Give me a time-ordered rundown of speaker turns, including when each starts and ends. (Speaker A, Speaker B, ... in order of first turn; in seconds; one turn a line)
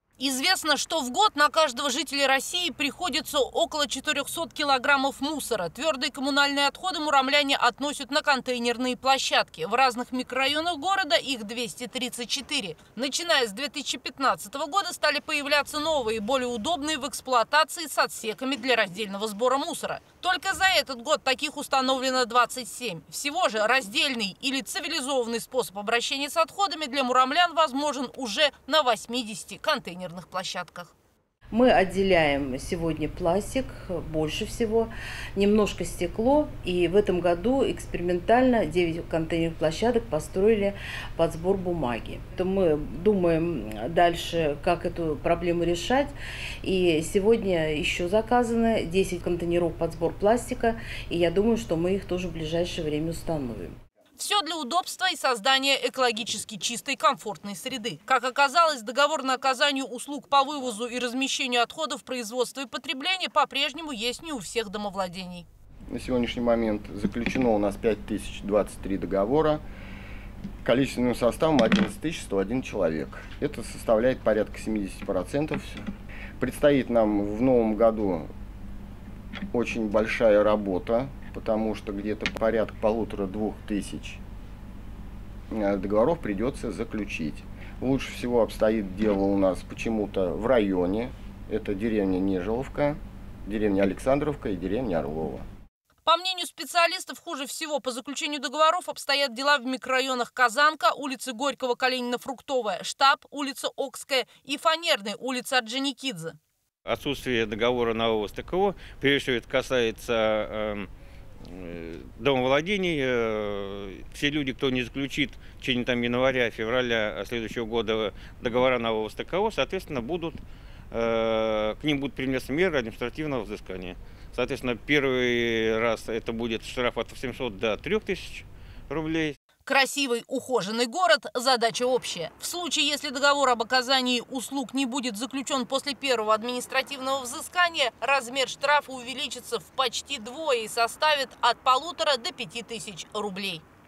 Speaker A: 0.2-30.9
Speaker B: 31.5-53.8
Speaker A: 54.2-65.5
Speaker C: 65.9-69.6
Speaker C: 70.6-75.8
Speaker C: 76.4-78.3
Speaker C: 79.5-84.2
Speaker C: 85.5-95.5
Speaker A: 96.0-106.4
Speaker D: 106.9-110.9
Speaker D: 111.5-129.4
Speaker A: 129.7-143.6